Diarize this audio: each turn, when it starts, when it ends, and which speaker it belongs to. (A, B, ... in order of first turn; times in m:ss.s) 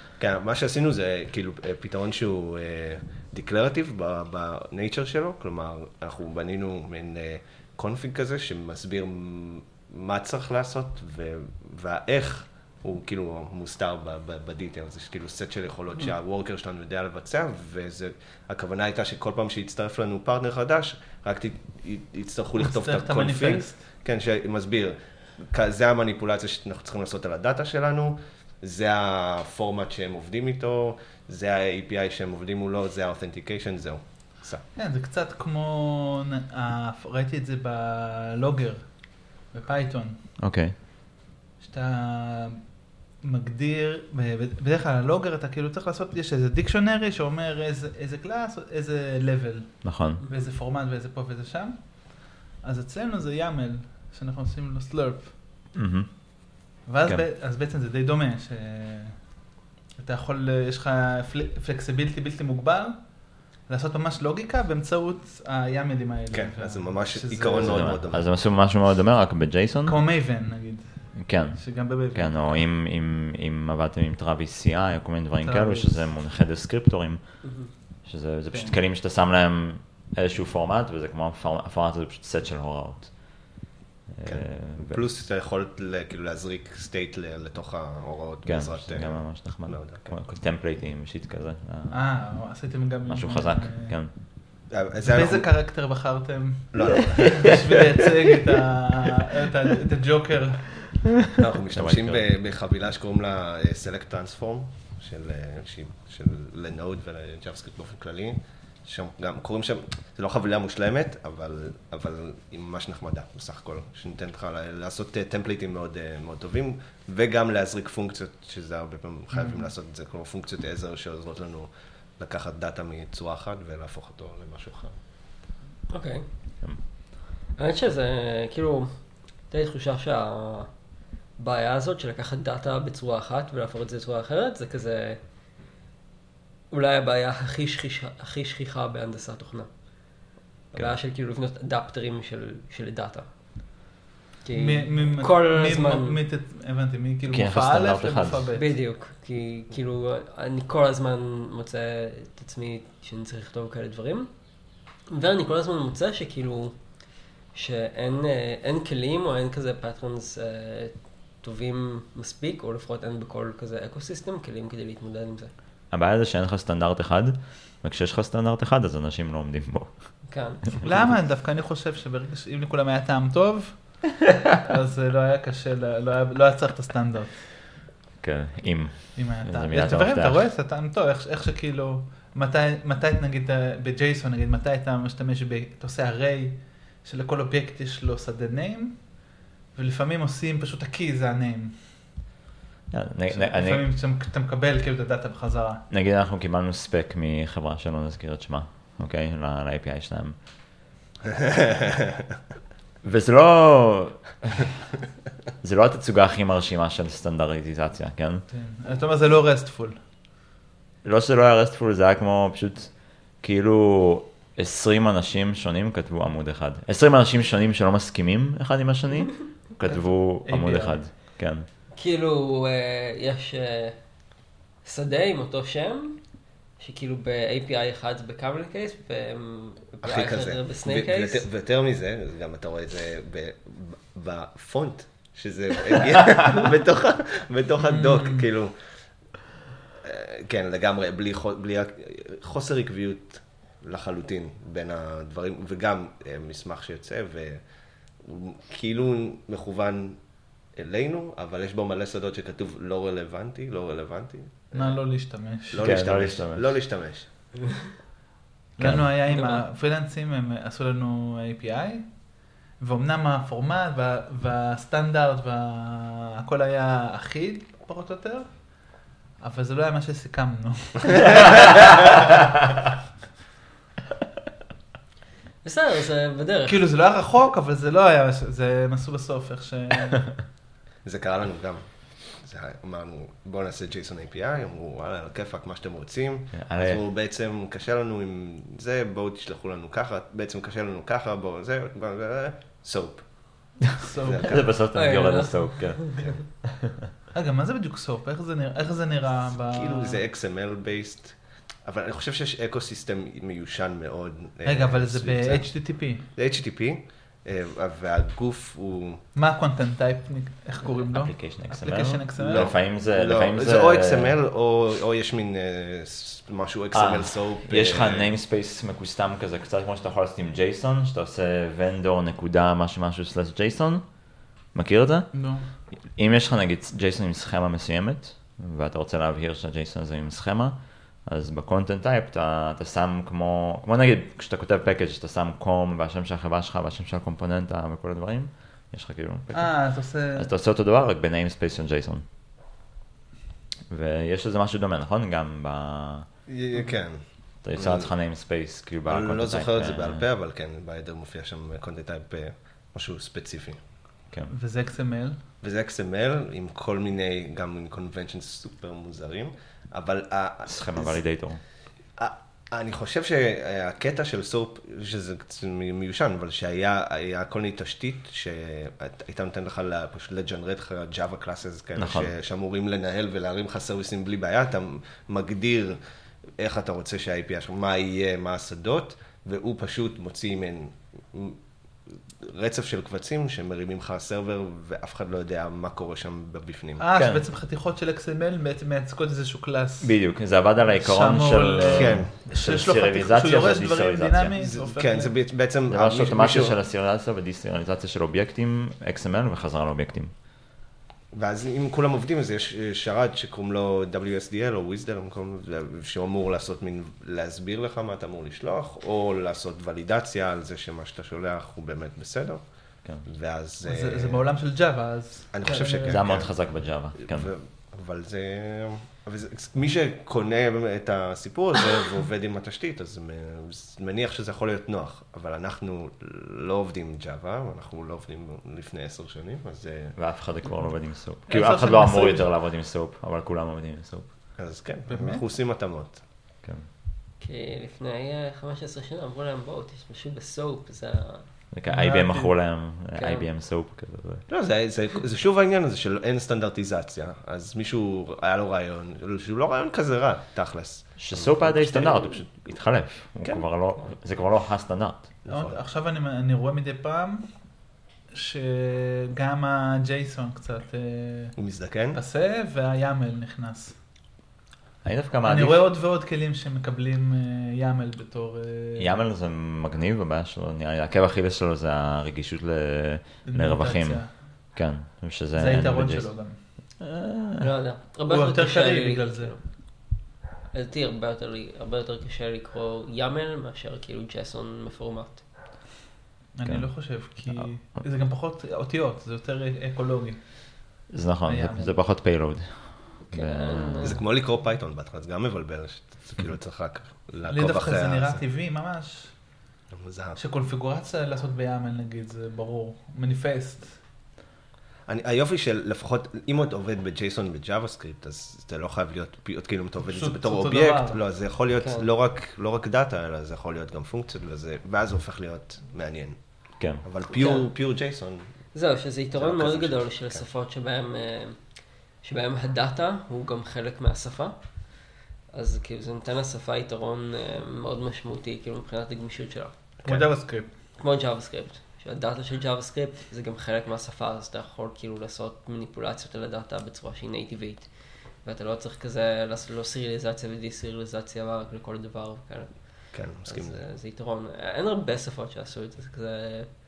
0:00.2-0:34.6 A
0:22.6-0:23.8 B
0:34.8-0:40.2 B
0:40.4-0:40.7 C
0:41.6-0:55.3 B
0:49.8-0:50.2 C
0:55.7-0:57.2 C
0:56.8-0:59.3 B
1:00.0-1:08.0 B
1:06.3-1:08.3 A
1:07.6-1:10.0 C
1:09.8-1:12.5 B
1:11.2-1:25.0 C
1:15.4-1:16.1 B
1:17.4-1:17.7 D
1:18.5-1:18.8 B
1:24.2-1:30.2 A
1:28.4-1:32.2 C
1:31.9-1:34.0 B
1:33.1-1:34.1 C
1:34.7-1:35.5 A
1:35.0-1:41.0 B
1:36.7-1:37.7 A
1:41.4-2:05.0 A
1:41.7-1:42.2 C
1:59.3-1:59.7 B
2:05.9-2:06.3 D
2:07.5-2:10.7 D
2:11.4-2:15.2 D
2:16.7-2:19.7 D
2:20.7-2:23.3 D
2:24.4-2:26.2 D
2:24.5-2:28.7 B
2:27.3-2:28.5 C
2:28.6-2:34.3 D
2:35.1-2:36.8 D
2:37.5-2:45.5 D
2:45.9-2:51.1 C
2:50.3-2:50.7 D
2:50.8-2:57.5 B
2:58.2-3:00.4 C
2:59.2-3:12.1 B
3:12.9-3:13.9 C
3:13.3-3:15.8 B
3:15.9-3:20.4 C
3:21.4-3:22.0 A
3:23.0-3:24.8 C
3:25.6-3:28.4 C
3:28.5-3:30.0 B
3:31.0-3:41.7 C
3:39.8-3:41.0 B
3:41.9-3:44.0 D
3:44.8-3:46.2 D
3:46.8-3:51.4 D
3:50.0-3:58.7 A
3:57.8-3:58.4 B
4:00.0-4:07.6 A
4:08.2-4:10.2 A
4:10.7-4:15.0 A
4:14.7-4:15.9 B
4:15.7-4:17.3 A
4:15.8-4:16.7 C
4:18.8-4:22.2 B
4:18.8-4:19.1 C
4:19.3-4:19.6 D
4:22.8-4:28.8 B
4:29.4-4:32.1 B
4:35.6-4:36.8 D
4:36.7-4:40.4 B
4:41.0-4:54.7 A
4:46.5-4:47.0 C
4:54.0-4:54.6 B
4:54.4-4:56.1 C
4:54.9-4:56.2 D
4:57.3-5:00.2 B
4:59.7-5:09.2 A
5:04.6-5:06.2 B
5:09.3-5:12.7 B
5:11.1-5:14.3 C
5:12.4-5:18.3 A
5:16.9-5:25.4 C
5:25.3-5:25.6 B
5:26.1-5:42.2 C
5:39.5-5:40.5 B
5:43.9-5:46.3 C
5:46.5-5:47.2 A
5:47.6-5:50.2 C
5:47.7-5:48.1 A
5:49.0-5:53.8 A
5:54.5-5:55.4 B
5:55.6-6:01.2 A
6:00.7-6:01.6 C
6:02.2-6:16.0 A
6:12.0-6:12.3 C
6:16.6-6:27.0 A
6:27.0-6:30.2 B
6:27.1-6:27.4 C
6:30.0-6:34.5 C
6:30.9-6:35.3 B
6:31.9-6:32.3 A
6:34.6-6:36.8 A
6:35.9-6:40.3 C
6:41.3-6:54.4 A
6:53.8-6:56.2 B
6:55.5-7:10.2 A
6:56.0-6:57.5 C
7:10.2-7:14.3 C
7:11.5-7:12.5 B
7:14.6-7:16.2 A
7:15.1-7:15.4 B
7:17.4-7:21.5 D
7:21.7-7:24.4 C
7:21.8-7:22.5 B
7:23.1-7:23.5 D
7:24.5-7:32.8 A
7:31.2-7:35.3 C
7:35.4-7:35.8 A
7:35.5-7:37.5 B
7:38.3-7:41.6 B
7:41.6-7:42.2 A
7:42.1-7:44.0 B
7:45.0-7:45.9 C
7:45.4-7:49.2 B
7:49.0-7:57.7 C
7:53.4-7:54.4 B
7:55.5-7:56.6 B
7:57.6-7:59.6 D
7:58.3-7:59.5 B
8:00.7-8:05.4 D
8:06.6-8:10.9 B
8:06.6-8:07.7 C
8:11.1-8:14.2 C
8:11.4-8:12.0 B
8:13.3-8:14.2 D
8:14.0-8:18.4 A
8:17.4-8:19.3 B
8:19.9-8:20.4 A
8:20.4-8:24.0 B
8:25.1-8:38.5 A
8:30.0-8:31.2 B
8:31.8-8:32.0 D
8:37.3-8:37.7 D
8:38.7-8:41.6 D
8:39.3-8:40.4 A
8:42.2-8:44.6 D
8:45.5-8:49.9 D
8:50.0-8:50.7 B
8:51.0-8:57.9 D
8:58.4-9:06.7 D
9:03.1-9:03.8 A